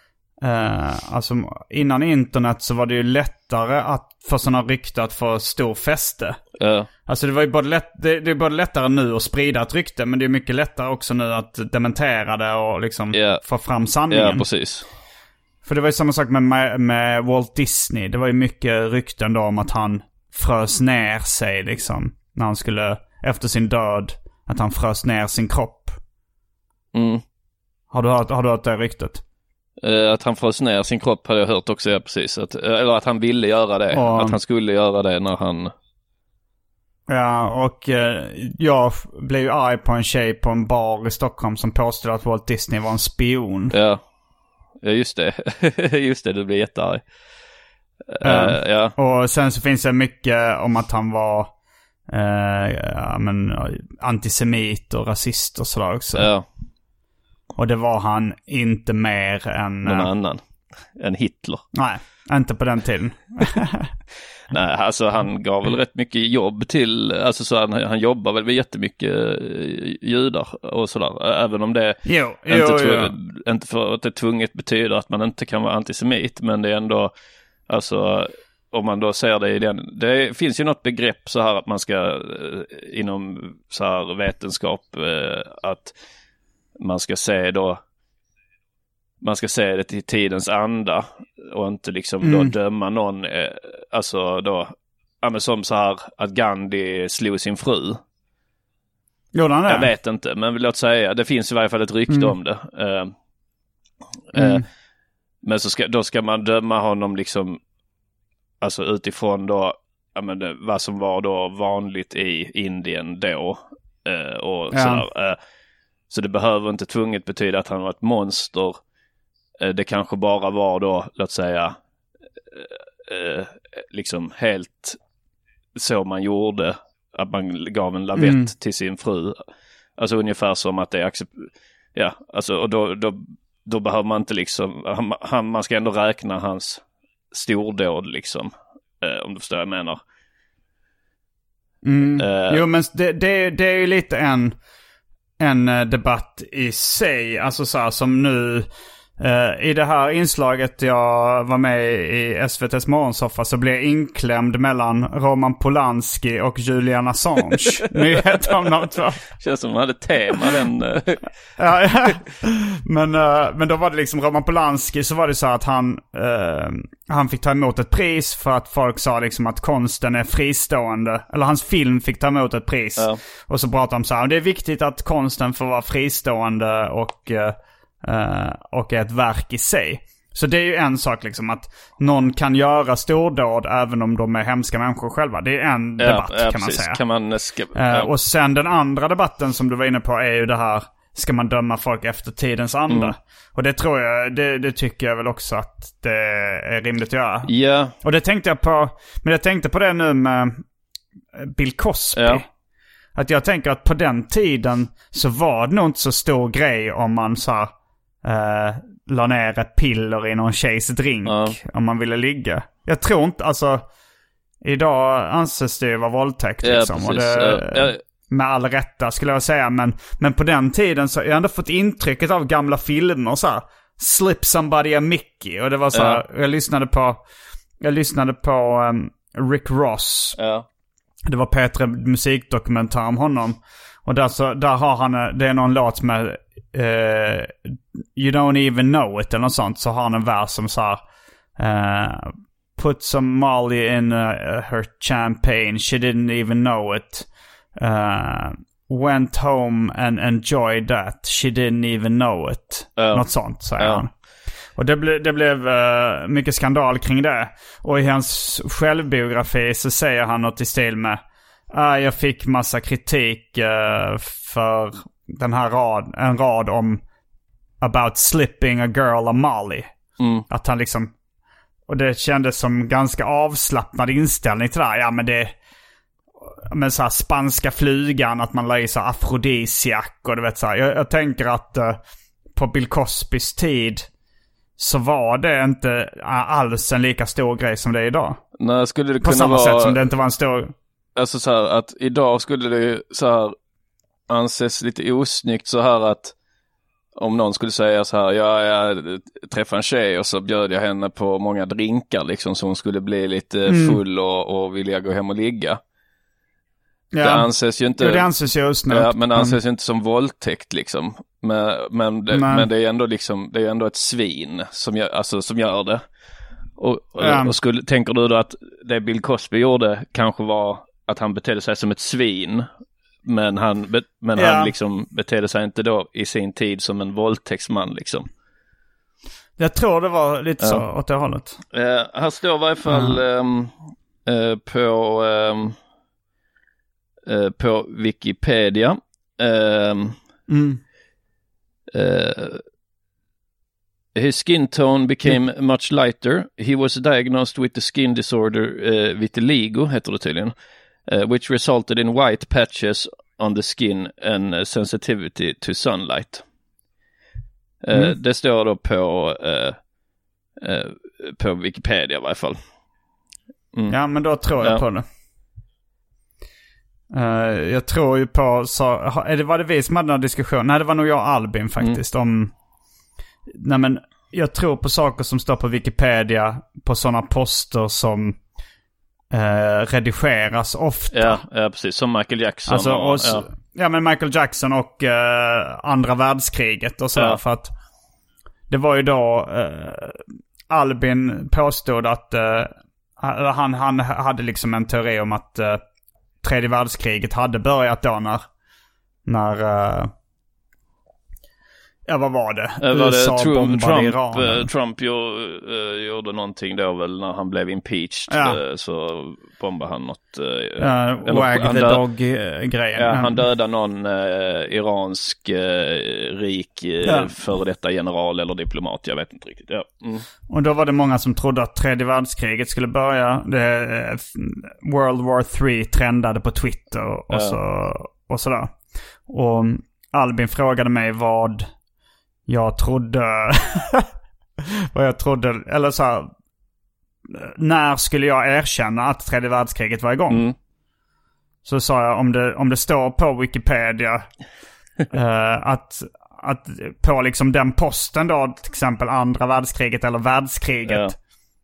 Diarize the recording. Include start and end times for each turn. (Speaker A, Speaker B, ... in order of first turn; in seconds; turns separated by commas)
Speaker A: 0.4-6.4, Speaker B: 6.6-6.9, Speaker A: 7.1-14.5, Speaker B: 13.1-13.4, Speaker B: 14.1-14.9, Speaker A: 15.6-26.0, Speaker B: 26.9-27.2, Speaker A: 27.9-29.2, Speaker B: 29.8-35.7, Speaker A: 33.9-34.4, Speaker A: 37.1-43.7, Speaker B: 43.7-44.0, Speaker B: 44.8-47.0, Speaker B: 48.1-49.0, Speaker A: 48.2-51.5, Speaker A: 52.1-56.3, Speaker B: 56.1-56.5, Speaker A: 57.6-60.1, Speaker B: 59.8-61.7, Speaker A: 61.7-63.9, Speaker B: 64.5-77.1, Speaker A: 72.1-73.1, Speaker B: 77.7-86.0, Speaker B: 86.8-87.8, Speaker B: 89.2-98.0, Speaker A: 92.2-92.5, Speaker A: 99.3-99.9, Speaker B: 99.7-103.1, Speaker A: 102.1-102.3, Speaker B: 104.3-104.6, Speaker A: 104.3-104.6, Speaker B: 105.4-107.6, Speaker B: 108.6-115.4, Speaker A: 114.7-115.0, Speaker B: 116.1-118.8, Speaker B: 119.6-121.8, Speaker B: 122.5-125.0, Speaker B: 125.8-129.4, Speaker A: 128.2-128.5, Speaker B: 130.0-140.0, Speaker A: 141.8-144.6, Speaker B: 142.2-142.7, Speaker A: 145.4-148.7, Speaker A: 149.2-159.2, Speaker B: 159.4-161.3, Speaker A: 161.6-187.0, Speaker B: 186.0-188.1, Speaker A: 187.8-197.5, Speaker B: 192.9-193.2, Speaker B: 197.5-198.0, Speaker A: 198.0-200.6, Speaker A: 201.4-202.5, Speaker B: 202.2-202.4, Speaker A: 203.2-207.7, Speaker A: 208.2-213.9, Speaker B: 211.2-211.6, Speaker A: 214.6-227.2, Speaker B: 216.6-218.0, Speaker B: 225.9-226.2, Speaker A: 227.8-230.4, Speaker B: 230.4-230.7, Speaker A: 231.3-241.0, Speaker A: 241.6-254.1, Speaker B: 253.0-254.1, Speaker A: 254.8-261.2, Speaker A: 261.7-267.0, Speaker A: 267.8-269.9, Speaker B: 270.2-270.5, Speaker A: 270.5-271.1, Speaker A: 271.9-275.6, Speaker A: 276.7-282.0, Speaker A: 282.6-284.1, Speaker A: 284.8-288.4, Speaker B: 288.6-290.1, Speaker A: 289.2-290.7, Speaker B: 291.2-293.6, Speaker B: 294.3-296.3, Speaker B: 297.1-305.8, Speaker A: 303.7-304.0, Speaker A: 307.1-309.6, Speaker B: 307.2-308.3, Speaker B: 308.9-316.0, Speaker A: 312.3-312.7, Speaker B: 316.8-322.7, Speaker A: 317.2-317.5, Speaker B: 323.2-328.3, Speaker A: 324.4-324.7, Speaker A: 329.6-331.6, Speaker B: 331.7-335.8, Speaker A: 332.9-333.2, Speaker B: 337.3-340.2, Speaker A: 340.5-340.8, Speaker B: 341.9-342.6, Speaker B: 344.1-350.5, Speaker B: 351.1-356.4, Speaker B: 357.8-359.8, Speaker B: 360.6-362.6, Speaker A: 363.9-365.1, Speaker B: 364.6-364.8, Speaker A: 367.1-372.5, Speaker A: 373.5-378.4, Speaker A: 379.3-381.4, Speaker B: 381.1-383.5, Speaker A: 382.7-387.7, Speaker A: 388.7-395.8, Speaker A: 396.4-398.5, Speaker A: 399.3-400.1, Speaker A: 402.1-404.7, Speaker B: 402.8-412.0, Speaker A: 408.3-408.6, Speaker A: 410.8-413.4, Speaker B: 412.9-420.3, Speaker A: 417.0-417.3, Speaker A: 420.5-431.7, Speaker B: 427.3-427.6, Speaker A: 432.5-434.1, Speaker A: 434.9-436.3, Speaker A: 437.3-440.5, Speaker B: 440.3-440.6, Speaker A: 441.6-444.3, Speaker A: 445.1-451.1, Speaker B: 450.9-451.1